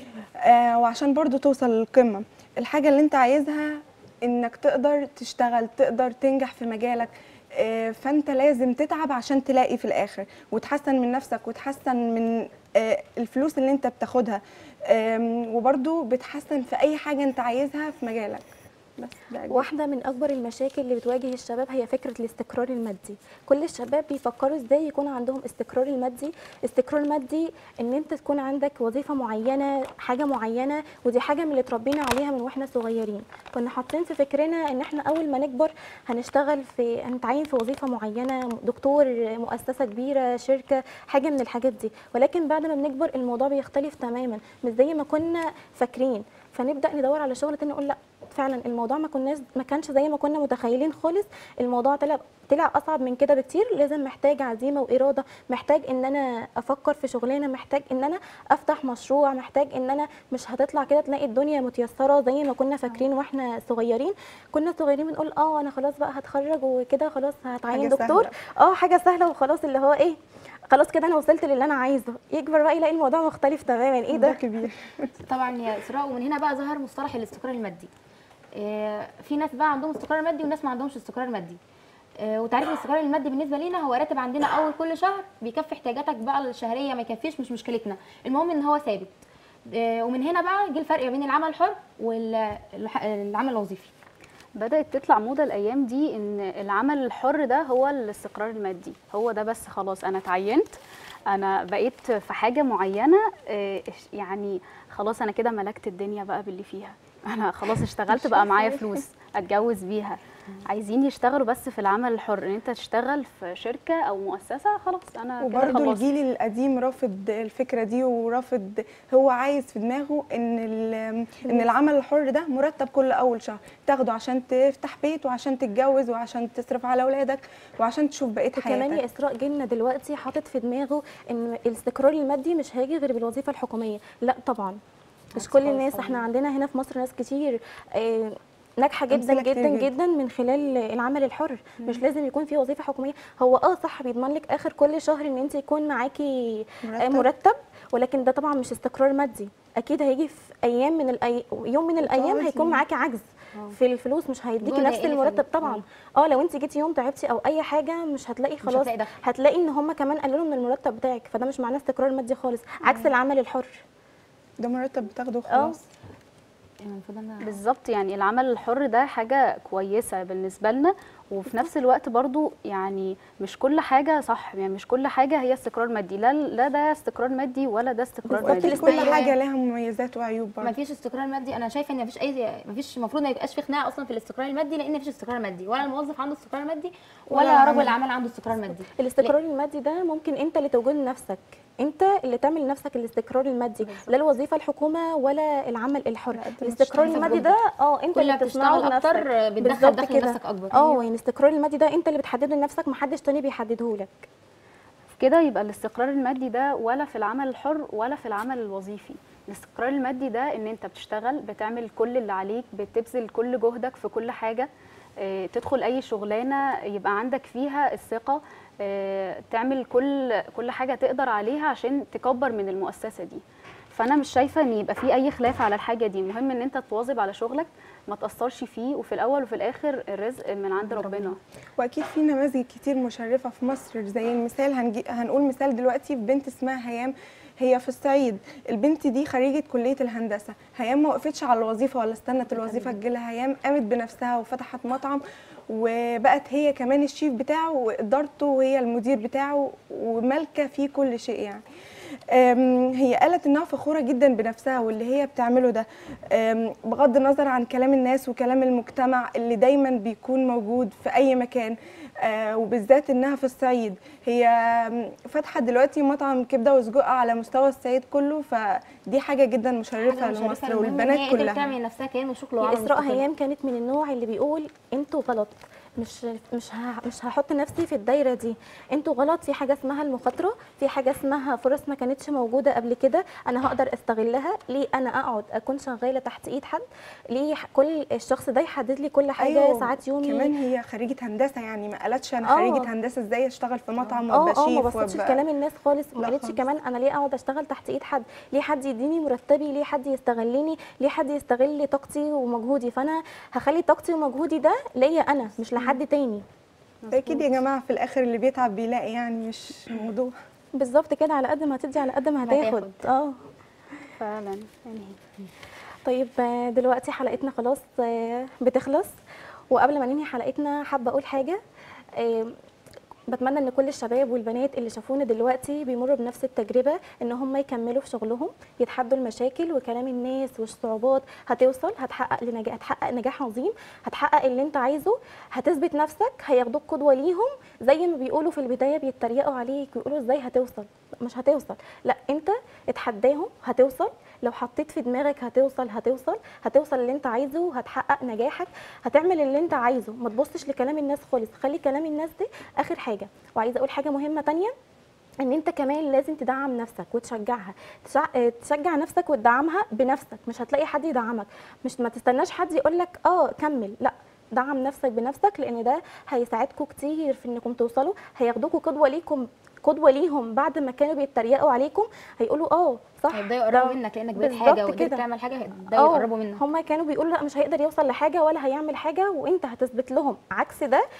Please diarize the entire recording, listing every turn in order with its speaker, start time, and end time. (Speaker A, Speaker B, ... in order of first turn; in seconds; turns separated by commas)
Speaker A: 0.4-19.7, Speaker B: 19.5-70.2, Speaker A: 67.7-68.3, Speaker B: 70.7-74.4, Speaker A: 74.1-75.1, Speaker C: 75.2-77.9, Speaker C: 78.5-81.6, Speaker C: 82.2-89.1, Speaker C: 89.7-93.9, Speaker D: 94.5-100.7, Speaker D: 101.3-116.1, Speaker A: 108.1-108.9, Speaker A: 115.4-129.0, Speaker B: 128.6-134.8, Speaker C: 135.3-136.2, Speaker B: 135.3-163.8, Speaker A: 139.1-139.9, Speaker A: 146.8-147.3, Speaker A: 152.0-152.8, Speaker C: 154.6-155.8, Speaker C: 158.6-159.2, Speaker A: 162.8-163.1, Speaker A: 164.6-165.8, Speaker B: 165.5-165.8, Speaker C: 166.8-167.6, Speaker D: 167.4-179.1, Speaker A: 178.4-180.7, Speaker C: 178.4-179.3, Speaker B: 178.8-179.3, Speaker C: 180.6-189.3, Speaker B: 187.3-187.9, Speaker B: 189.0-204.3, Speaker D: 193.8-194.2, Speaker A: 196.3-197.5, Speaker C: 197.0-197.5, Speaker C: 198.1-201.0, Speaker D: 205.2-214.7, Speaker D: 215.2-231.4, Speaker A: 231.8-251.6, Speaker A: 252.3-271.6, Speaker C: 270.0-273.2, Speaker B: 272.6-290.5, Speaker A: 289.4-295.4, Speaker B: 292.4-292.9, Speaker B: 294.3-306.4, Speaker A: 296.2-296.6, Speaker D: 307.0-307.5, Speaker A: 307.1-310.3, Speaker B: 310.8-313.3, Speaker C: 312.4-313.0, Speaker D: 314.2-315.2, Speaker B: 316.0-319.1, Speaker B: 319.7-321.6, Speaker B: 322.1-322.6, Speaker B: 323.3-354.7, Speaker B: 355.4-375.2, Speaker C: 373.3-376.6, Speaker B: 375.9-381.0